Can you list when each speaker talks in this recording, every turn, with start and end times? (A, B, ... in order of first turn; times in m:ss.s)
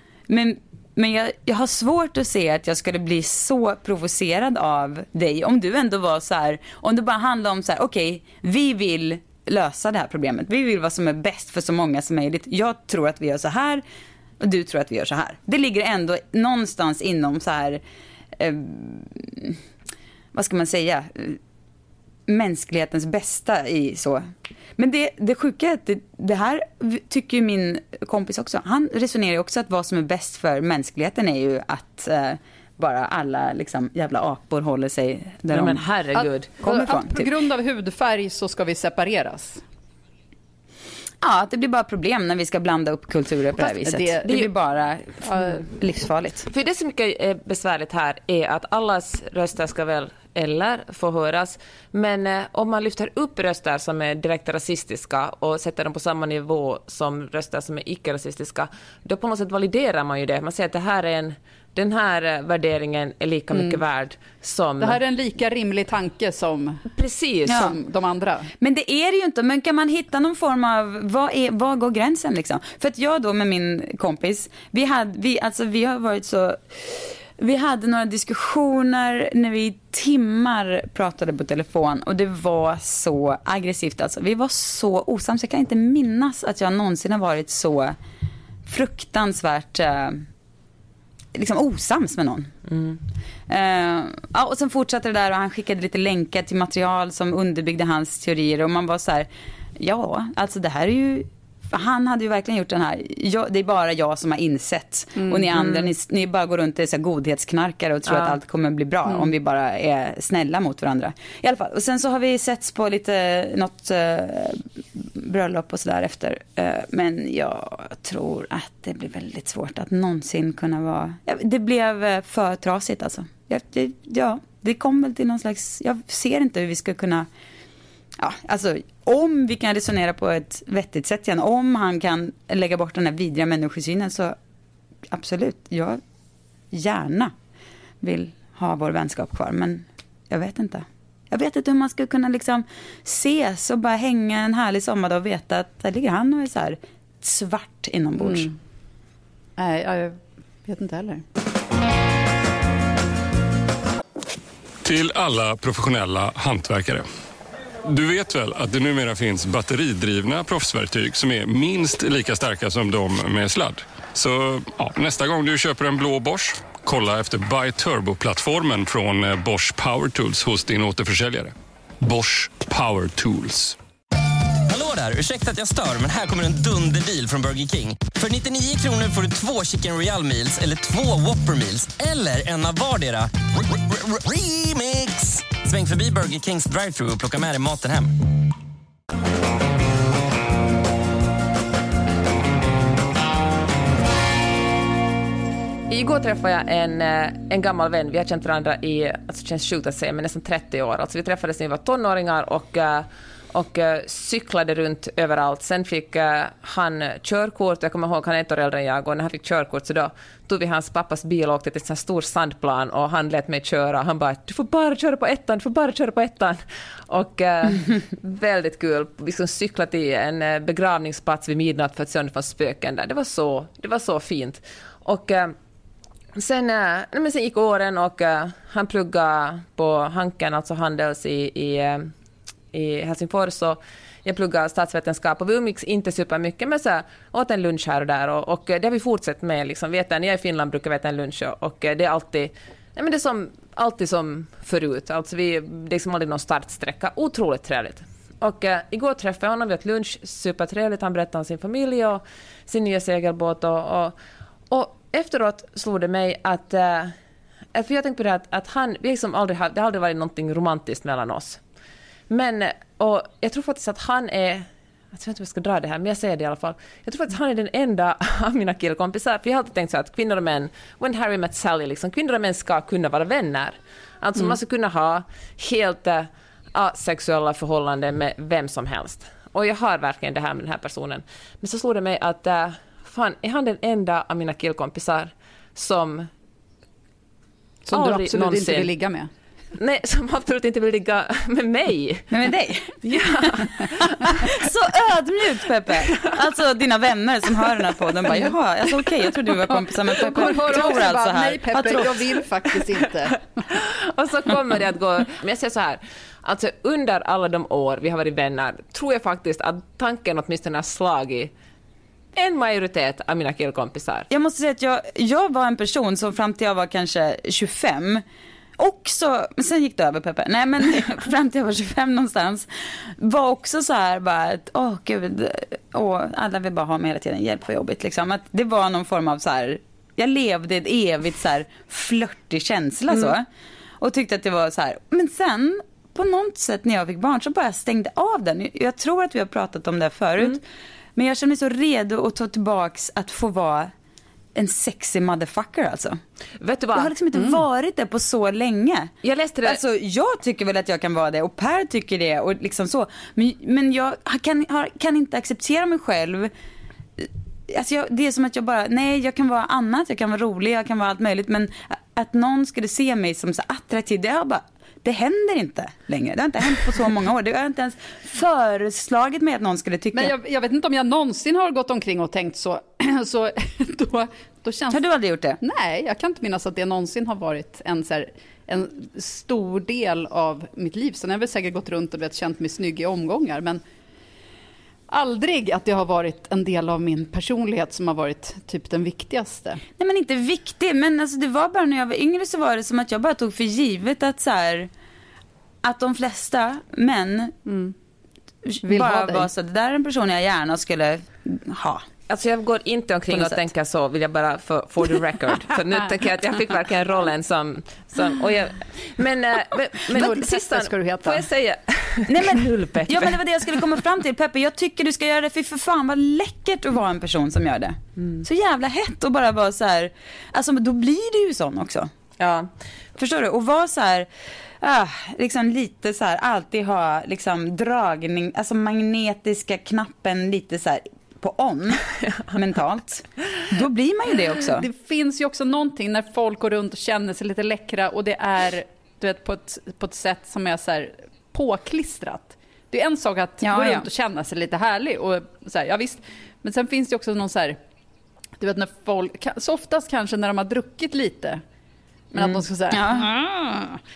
0:00.3-0:13.8 A
0:14.4-0:17.8 A
0:18.4-0:19.6 A
0:20.3-0:21.4 A
0:22.3-0:24.2 A
0:24.8-0:35.8 A
0:35.5-0:36.5 B
0:36.2-0:39.6 C
0:36.6-0:37.3 A
0:41.2-0:46.5 A
0:43.6-0:44.4 C
0:45.2-0:45.6 C
0:46.5-1:05.0 B
1:03.5-1:03.8 C
1:04.8-1:06.8 C
1:06.9-1:07.7 B
1:07.5-1:08.5 C
1:07.5-1:07.8 A
1:08.6-1:28.0 A
1:28.7-1:30.3 A
1:31.3-1:32.5 A
1:32.7-1:33.0 B
1:33.5-2:07.3 A
1:45.2-1:45.8 C
1:48.1-1:48.4 B
2:08.2-2:14.4 A
2:15.1-2:16.0 A
2:16.7-2:17.3 A
2:18.0-2:28.5 A
2:28.2-2:28.6 C
2:29.6-2:31.2 C
2:34.8-2:37.1 D
2:37.9-2:53.8 D
2:54.7-3:08.2 E
3:15.9-3:45.6 B
3:46.4-3:52.1 B
3:52.7-4:14.2 B
4:14.7-4:17.2 B
4:17.7-4:21.6 B
4:22.3-4:46.3 B
4:47.8-4:49.3 C
4:47.9-4:48.9 B
4:49.8-4:52.3 B
4:52.3-5:02.4 A
4:53.0-4:54.5 B
5:00.1-5:03.4 C
5:03.7-5:11.5 B
5:12.4-5:14.3 B
5:14.3-5:18.2 A
5:18.8-5:33.5 A
5:34.0-5:40.6 A
5:41.2-5:43.9 A
5:44.6-5:46.2 A
5:46.6-5:47.1 B
5:46.9-5:49.1 A
5:49.2-5:49.8 B
5:49.6-5:56.5 A
5:57.2-6:10.3 A
6:10.1-6:15.0 C
6:14.9-6:15.6 A
6:15.6-6:23.8 C
6:25.1-6:29.8 C
6:30.0-6:34.9 A
6:35.8-6:37.6 A
6:37.7-6:37.9 C
6:38.6-6:42.0 A
6:38.8-6:39.5 C
6:42.3-6:53.4 B
6:50.1-6:51.5 C
6:52.3-7:02.1 A
7:02.4-7:02.7 B
7:03.2-7:04.3 A
7:04.8-7:14.9 A
7:14.8-7:27.8 C
7:23.6-7:24.1 A
7:28.6-7:31.6 C
7:32.3-7:33.9 C
7:32.9-7:33.3 A